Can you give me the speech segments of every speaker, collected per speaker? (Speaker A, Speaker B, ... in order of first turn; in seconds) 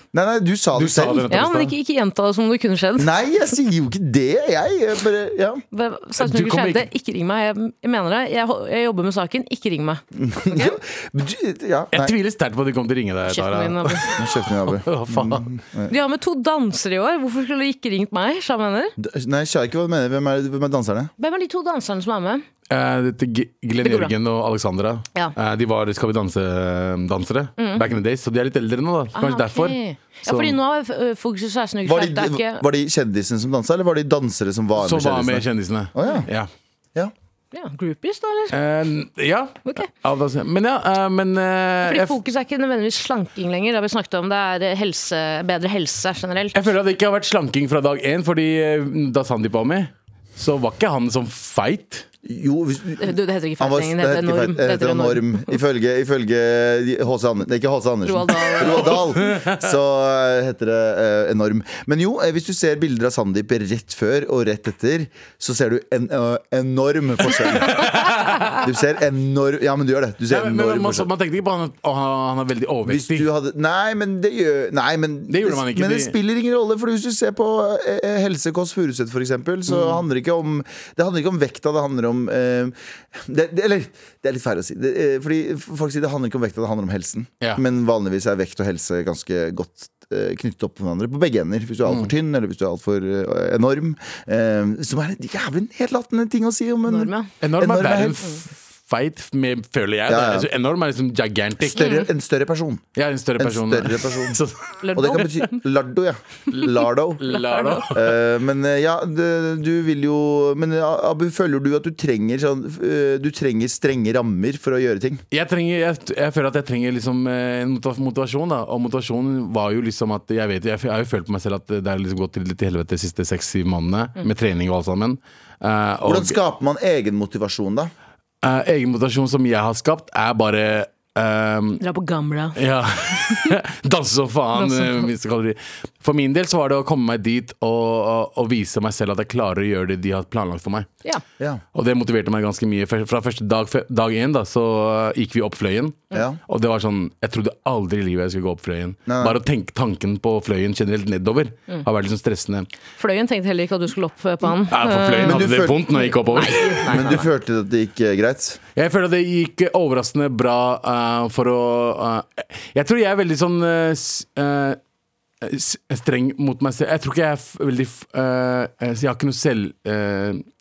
Speaker A: 0.1-1.3, 3.0-5.6, 10.1-12.2, 14.2-15.9, 19.0-21.1, 31.9-36.3, 52.2-71.1, 72.8-98.2, 100.1-100.5, 101.7-102.9, 103.4-104.4, 105.0-107.2, 107.9-115.2, 126.0-127.9, 146.1-146.4, 149.1-149.4, 155.2-158.6
Speaker B: 0.8-1.7, 6.2-6.9, 11.9-15.5, 22.7-30.6, 34.8-36.5, 38.5-42.2, 46.5-52.1, 67.6-68.6, 70.3-73.3, 75.3-76.1, 79.7-80.0, 97.4-101.9, 103.0-105.4, 106.5-108.2, 115.3-126.4, 128.4-131.8, 132.6-140.9, 141.8-152.7, 154.7-157.2, 158.8-164.8, 165.4-170.4
Speaker C: 1.3-3.1, 5.7-10.8, 13.3-14.2, 15.9-18.9, 21.2-22.4, 23.8-24.1, 27.6-27.8, 29.1-32.6, 37.5-38.5, 41.9-46.7, 53.0-55.6, 58.1-59.2, 96.9-97.3, 101.8-102.1, 104.8-105.3, 107.3-107.8, 131.8-132.6, 134.6-135.1, 153.0-155.4, 156.3-157.3